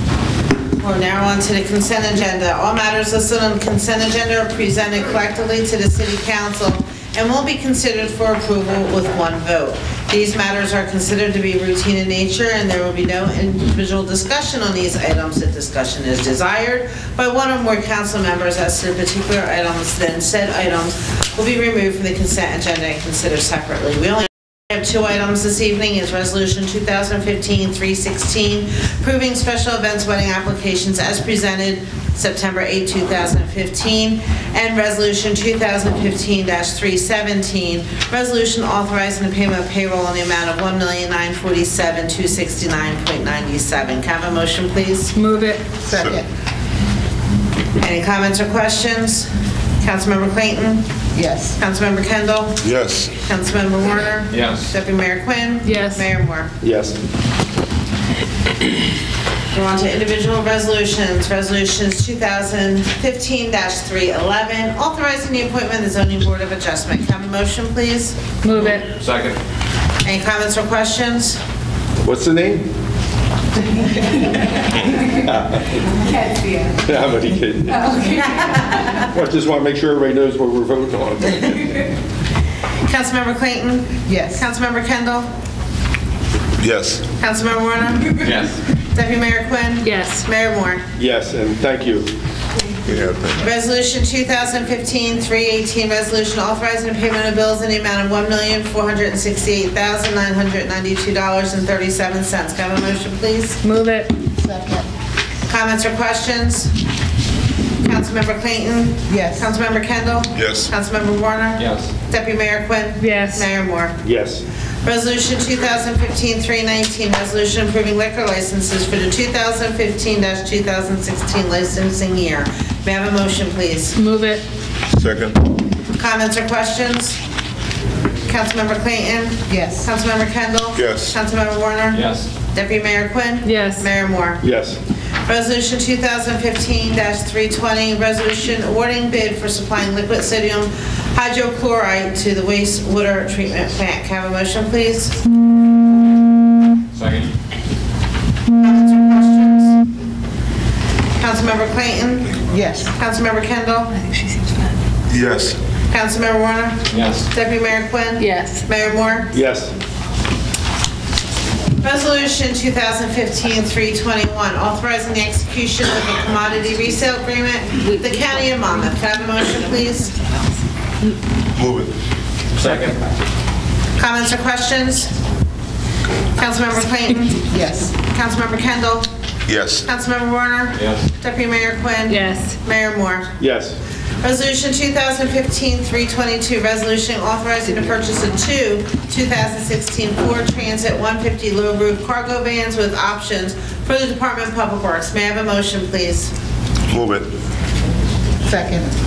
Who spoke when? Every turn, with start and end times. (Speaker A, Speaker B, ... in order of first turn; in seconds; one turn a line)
Speaker A: 0.8-45.1
Speaker B: 45.1-45.8
Speaker C: 45.9-46.2
Speaker D: 45.9-46.2
Speaker A: 47.8-49.3
Speaker A: 49.8-50.8
Speaker C: 51.1-51.6
Speaker A: 51.6-52.6
Speaker D: 52.6-53.2
Speaker A: 53.2-56.5
Speaker E: 54.3-54.7
Speaker B: 55.6-56.1
Speaker F: 56.6-57.0
Speaker A: 59.5-68.3
Speaker B: 68.4-68.9
Speaker E: 68.7-69.4
Speaker A: 70.0-71.4
Speaker F: 72.0-72.7
Speaker F: 74.8-76.0
Speaker C: 76.1-76.5
Speaker F: 76.8-78.1
Speaker A: 78.3-78.9
Speaker F: 78.9-81.9
Speaker A: 82.8-85.3
Speaker C: 84.1-84.4
Speaker D: 86.6-87.1
Speaker A: 87.2-88.2
Speaker E: 88.2-88.6
Speaker A: 88.9-90.8
Speaker B: 89.8-90.2
Speaker F: 91.0-92.1
Speaker D: 92.8-93.4
Speaker A: 93.4-103.6
Speaker B: 103.6-104.2
Speaker C: 104.4-104.8
Speaker A: 105.5-106.7
Speaker A: 107.8-114.0
Speaker C: 109.1-109.5
Speaker D: 110.3-110.7
Speaker E: 111.6-111.9
Speaker B: 113.0-113.5
Speaker F: 114.0-114.4
Speaker A: 114.8-124.0
Speaker B: 123.9-124.4
Speaker D: 124.9-125.4
Speaker A: 126.0-127.2
Speaker A: 128.2-134.4
Speaker C: 129.5-129.8
Speaker D: 130.7-131.2
Speaker E: 131.9-132.3
Speaker B: 133.4-133.9
Speaker F: 134.4-134.8
Speaker A: 135.3-145.2
Speaker E: 146.9-147.3
Speaker A: 148.6-149.8
Speaker A: 151.2-153.9
Speaker C: 152.5-152.9
Speaker B: 153.9-154.7
Speaker D: 155.1-155.6
Speaker A: 155.9-159.3
Speaker E: 156.9-157.3
Speaker B: 158.2-158.7
Speaker F: 159.3-159.7
Speaker A: 161.8-170.3
Speaker D: 171.5-171.9
Speaker E: 172.5-173.0
Speaker A: 174.0-175.1
Speaker A: 176.3-179.1
Speaker C: 177.5-177.9
Speaker D: 179.5-179.8
Speaker A: 179.8-183.3
Speaker E: 180.7-181.0
Speaker B: 182.1-182.6
Speaker F: 183.4-183.8
Speaker A: 184.2-196.3
Speaker D: 196.9-197.3
Speaker C: 198.5-198.9